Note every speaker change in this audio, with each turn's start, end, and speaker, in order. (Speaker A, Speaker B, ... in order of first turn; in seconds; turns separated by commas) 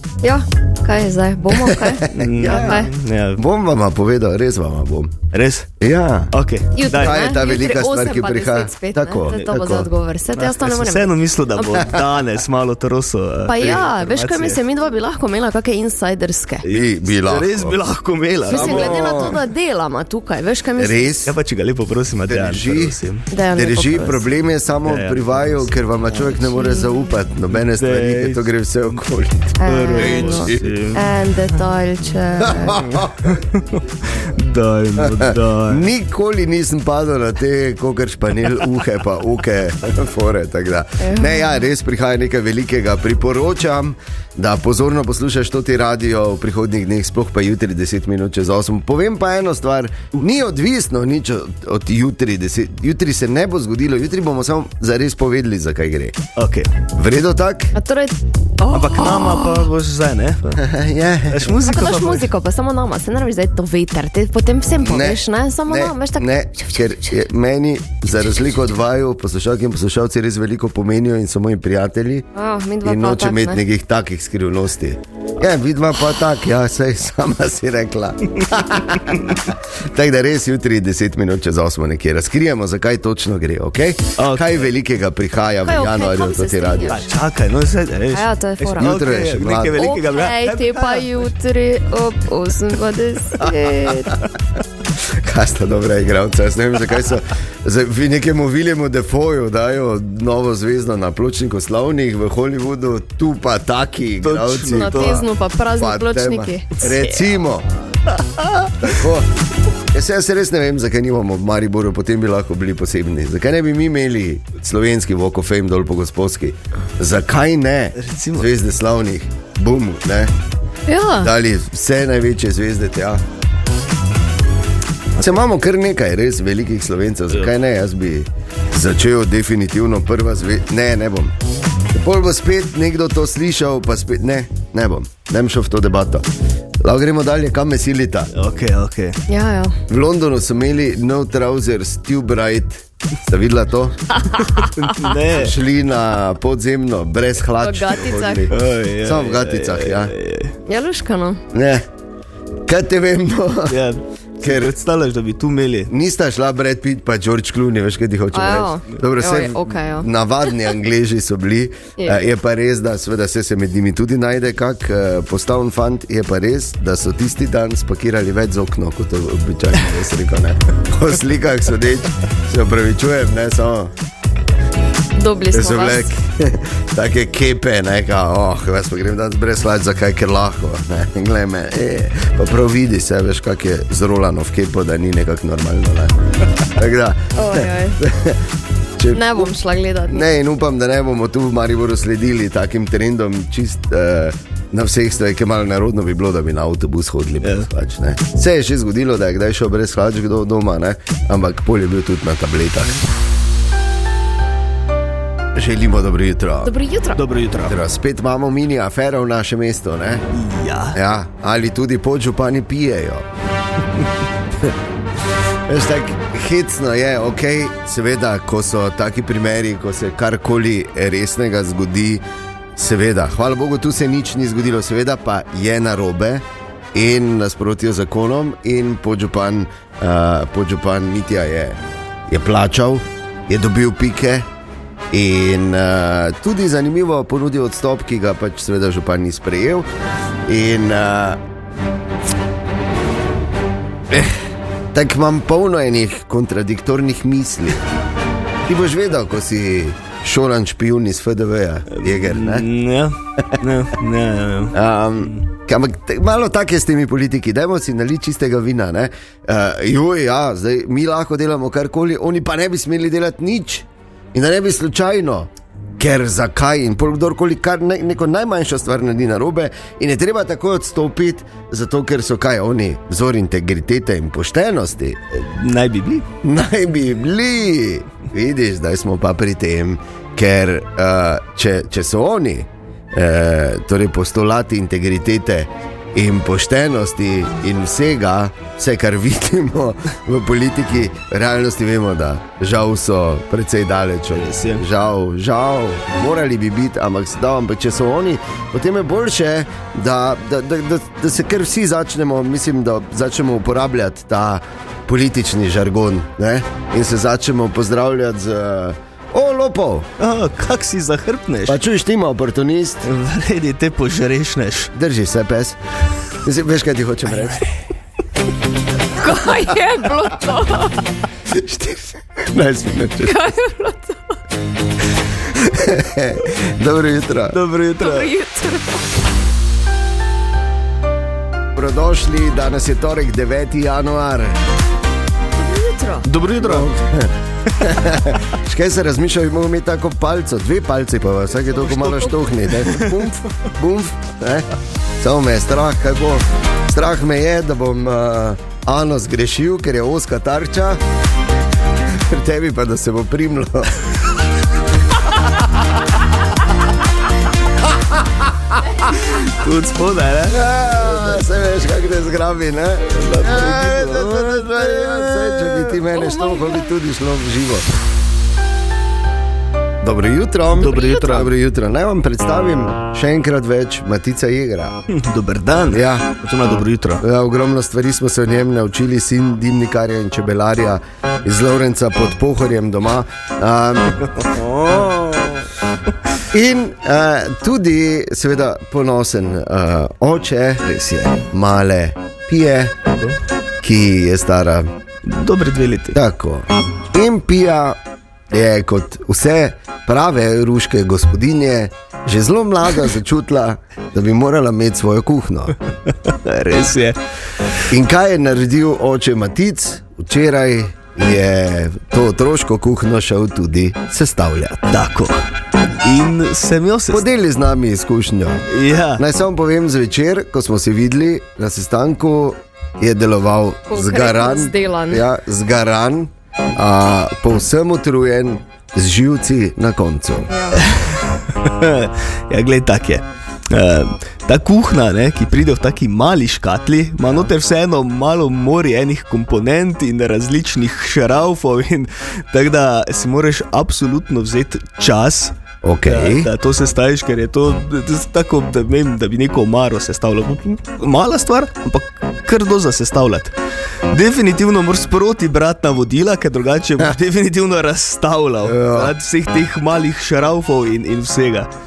Speaker A: 0.2-2.9, Speaker B: 1.6-5.2, Speaker C: 2.1-3.4, Speaker C: 5.3-5.7, Speaker B: 5.8-6.3, Speaker C: 6.3-7.2, Speaker A: 6.7-11.9, Speaker B: 6.9-9.9, Speaker C: 9.3-9.6, Speaker C: 10.3-14.6, Speaker A: 13.5-16.6, Speaker C: 16.6-19.4, Speaker B: 16.7-17.8, Speaker B: 18.5-19.4, Speaker A: 18.5-21.1, Speaker B: 20.8-21.4, Speaker C: 21.2-23.3, Speaker B: 22.3-23.0, Speaker A: 23.3-24.2, Speaker B: 23.5-30.8, Speaker C: 24.9-25.6, Speaker A: 26.5-26.9, Speaker C: 27.5-29.0, Speaker A: 29.6-33.0, Speaker C: 29.6-31.1, Speaker B: 32.4-33.4, Speaker C: 33.2-35.9, Speaker B: 35.0-56.2, Speaker A: 41.0-41.6, Speaker C: 56.4-56.7, Speaker B: 56.9-57.8, Speaker A: 57.7-59.6, Speaker C: 58.7-60.6, Speaker B: 60.6-61.6, Speaker C: 61.3-62.3, Speaker A: 61.6-66.9, Speaker B: 64.8-72.3, Speaker A: 72.3-73.6, Speaker B: 72.8-87.0, Speaker C: 84.2-84.6, Speaker A: 85.6-87.0, Speaker C: 86.9-91.3, Speaker A: 88.1-89.0, Speaker B: 88.8-89.9, Speaker A: 89.8-94.2, Speaker B: 93.4-94.2, Speaker B: 95.0-107.7, Speaker C: 104.2-105.2, Speaker A: 104.7-107.3, Speaker C: 108.1-108.8, Speaker B: 108.8-109.3, Speaker B: 109.9-120.3, Speaker C: 118.0-118.5, Speaker A: 120.9-121.3, Speaker B: 121.2-123.2, Speaker B: 125.2-131.3, Speaker B: 131.9-136.3, Speaker B: 136.8-138.3, Speaker C: 138.3-139.2, Speaker A: 139.3-139.8, Speaker B: 139.9-144.0, Speaker A: 144.2-144.7, Speaker C: 144.8-145.6, Speaker B: 145.3-150.1, Speaker A: 147.6-148.5, Speaker C: 148.5-150.6, Speaker A: 150.7-151.4, Speaker B: 151.5-151.8, Speaker B: 152.7-153.8, Speaker C: 153.7-155.9, Speaker B: 154.4-154.7, Speaker B: 155.9-173.9, Speaker A: 158.3-160.1, Speaker A: 175.2-176.1, Speaker B: 175.5-189.5, Speaker A: 187.4-188.0, Speaker A: 189.1-190.2, Speaker B: 190.1-203.0, Speaker C: 197.4-197.7, Speaker B: 205.6-206.7, Speaker A: 206.6-207.2, Speaker C: 207.2-207.8, Speaker B: 207.7-210.2, Speaker C: 210.3-211.0, Speaker B: 210.9-213.3, Speaker B: 215.7-222.2, Speaker B: 222.8-234.5, Speaker B: 235.1-239.9, Speaker B: 240.5-241.4, Speaker B: 244.1-244.4, Speaker B: 244.9-247.8, Speaker B: 248.7-252.7, Speaker C: 251.9-255.4, Speaker B: 254.7-275.2, Speaker C: 275.3-276.3, Speaker B: 276.4-310.1, Speaker C: 294.3-294.9, Speaker C: 310.2-311.8, Speaker B: 311.7-313.1, Speaker C: 313.0-314.9, Speaker B: 314.9-315.8, Speaker B: 316.4-317.7, Speaker A: 319.1-321.0, Speaker B: 321.5-323.4, Speaker A: 323.2-324.4, Speaker B: 325.5-327.6, Speaker C: 327.5-328.3, Speaker A: 328.0-329.1, Speaker B: 331.8-334.6, Speaker A: 335.6-336.3, Speaker C: 336.2-336.9, Speaker B: 336.6-344.7, Speaker C: 341.8-343.1, Speaker B: 345.2-351.0, Speaker B: 352.1-354.0, Speaker C: 359.2-360.6, Speaker B: 360.5-367.9, Speaker C: 363.1-366.0, Speaker A: 366.1-366.9, Speaker B: 370.0-375.0, Speaker C: 370.8-371.5, Speaker A: 370.9-371.4, Speaker C: 375.1-377.2, Speaker B: 375.9-376.3, Speaker B: 377.2-384.4, Speaker C: 384.4-385.6, Speaker B: 386.5-393.0, Speaker B: 393.8-394.9, Speaker C: 395.2-396.2, Speaker B: 396.1-398.0, Speaker B: 398.5-405.8, Speaker C: 406.3-407.2, Speaker B: 407.9-414.9, Speaker C: 414.9-415.4, Speaker C: 416.0-417.2, Speaker B: 417.1-418.6, Speaker C: 418.7-419.2, Speaker B: 419.2-430.5, Speaker A: 423.9-425.2, Speaker A: 430.5-430.8, Speaker C: 430.7-445.5, Speaker B: 445.8-446.5, Speaker C: 446.1-453.5, Speaker C: 454.1-461.7, Speaker B: 458.6-459.1